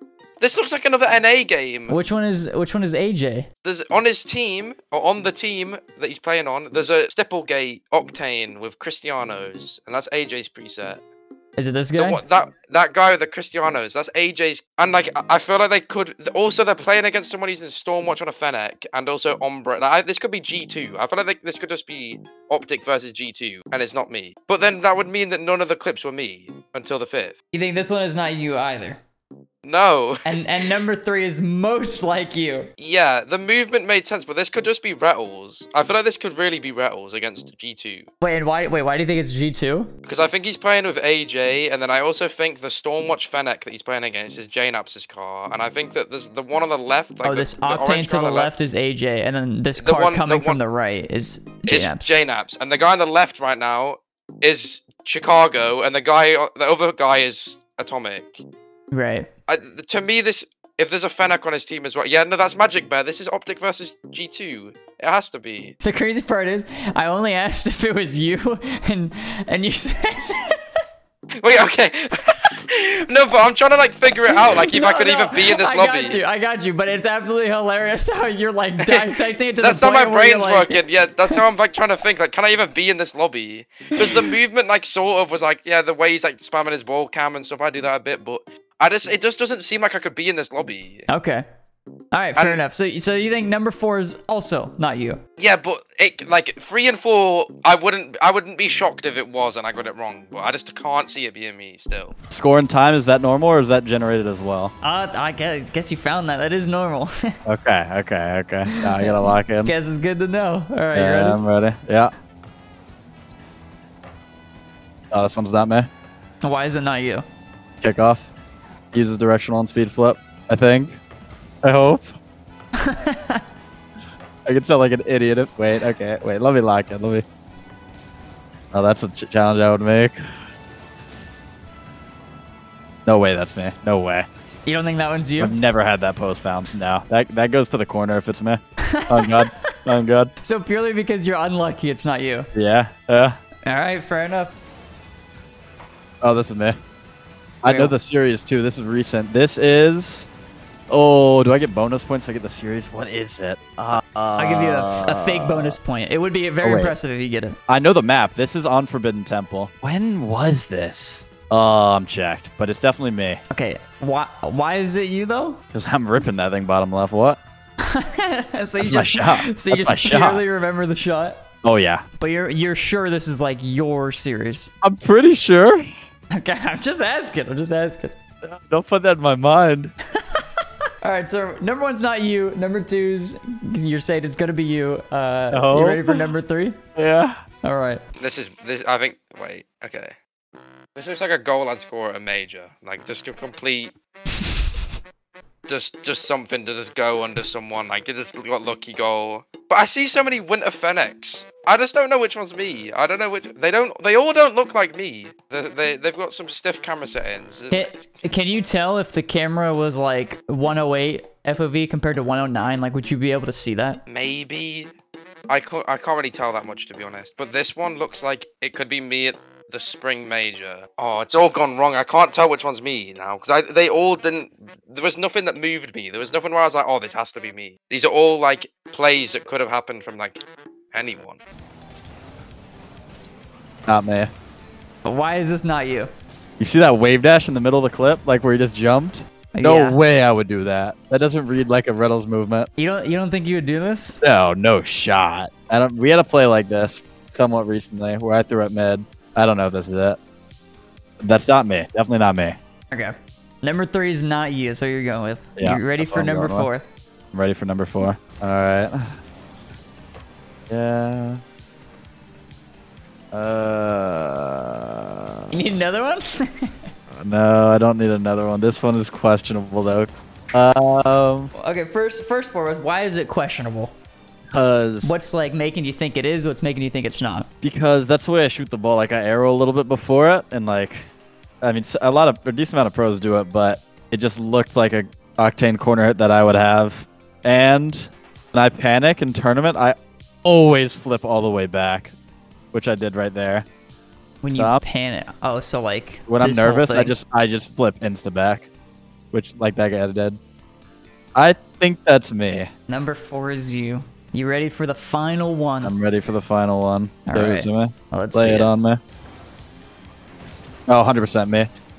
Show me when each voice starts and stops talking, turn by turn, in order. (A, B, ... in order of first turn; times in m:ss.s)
0:00.4-0:02.0 A
0:01.9-0:03.5 B
0:03.6-0:11.0 A
0:11.6-0:12.2 B
0:12.0-0:27.4 A
0:27.5-0:29.0 B
0:29.6-0:30.4 A
0:30.2-0:32.7 B
0:32.8-0:38.1 A
0:38.2-0:39.9 B
0:40.1-0:48.5 A
0:47.2-0:52.2 B
0:49.8-0:50.6 A
0:51.7-0:58.4 A
0:58.9-0:59.3 B
0:59.5-1:05.8 A
1:05.8-1:10.6 B
1:11.4-1:16.2 A
1:14.3-1:21.4 B
1:18.9-1:31.1 A
1:31.1-1:31.4 B
1:32.1-1:35.2 B
1:32.4-1:32.6 A
1:35.4-1:42.1 A
1:42.3-1:44.7 C
1:44.8-1:47.4 B
1:47.5-1:49.7 C
1:48.7-1:51.4 B
1:50.9-1:52.1 C
1:55.1-1:55.9 C
1:56.4-1:57.2 B
1:57.8-1:58.3 C
1:58.9-2:01.0 C
2:01.6-2:02.2 C
2:02.8-2:03.4 B
2:04.5-2:07.2 C
2:08.7-2:10.2 C
2:13.1-2:14.3 C
2:14.7-2:15.6 B
2:15.4-2:20.3 C
2:18.8-2:19.4 B
2:20.4-2:22.5 B
2:22.6-2:23.4 C
2:23.7-2:24.6 B
2:26.2-2:26.8 C
2:27.6-2:30.3 C
2:27.7-2:27.9 B
2:30.9-2:35.8 C
2:34.4-2:37.6 B
2:36.6-2:37.0 C
2:37.7-2:43.4 C
2:43.5-2:45.6 B
2:45.7-2:47.4 C
2:47.8-2:51.4 B
2:48.8-2:50.4 C
2:51.6-2:52.0 C
2:52.2-2:54.7 B
2:54.8-2:55.9 C
2:56.3-2:58.2 B
2:58.4-2:59.9 C
3:01.0-3:06.8 B
3:05.5-3:06.3 C
3:07.0-3:07.4 C
3:07.6-3:08.0 B
3:08.2-3:10.2 A
3:11.0-3:14.0 A
3:15.7-3:28.1 A
3:27.7-3:34.0 B
3:34.1-3:34.9 A
3:35.5-3:51.4 A
3:53.9-3:54.3 C
3:55.0-3:56.1 B
3:56.6-4:02.7 C
3:59.5-4:00.0 B
4:02.8-4:04.2 B
4:04.2-4:10.2 C
4:11.2-4:12.6 C
4:12.9-4:16.8 B
4:15.6-4:16.7 C
4:17.3-4:19.2 C
4:20.7-4:21.4 C
4:23.3-4:25.2 C
4:25.5-4:26.8 B
4:27.1-4:31.5 C
4:31.6-4:33.9 B
4:34.5-4:35.1 C
4:35.0-4:37.5 B
4:37.6-4:41.1 C
4:41.6-4:52.1 C
4:52.7-4:53.7 C
4:54.4-4:57.1 B
4:54.5-4:54.8 C
4:56.3-4:58.7 C
4:59.3-5:00.4 C
5:01.4-5:02.7 C
5:02.9-5:06.0 B
5:05.8-5:09.0 C
5:07.3-5:08.7 B
5:10.9-5:11.7 C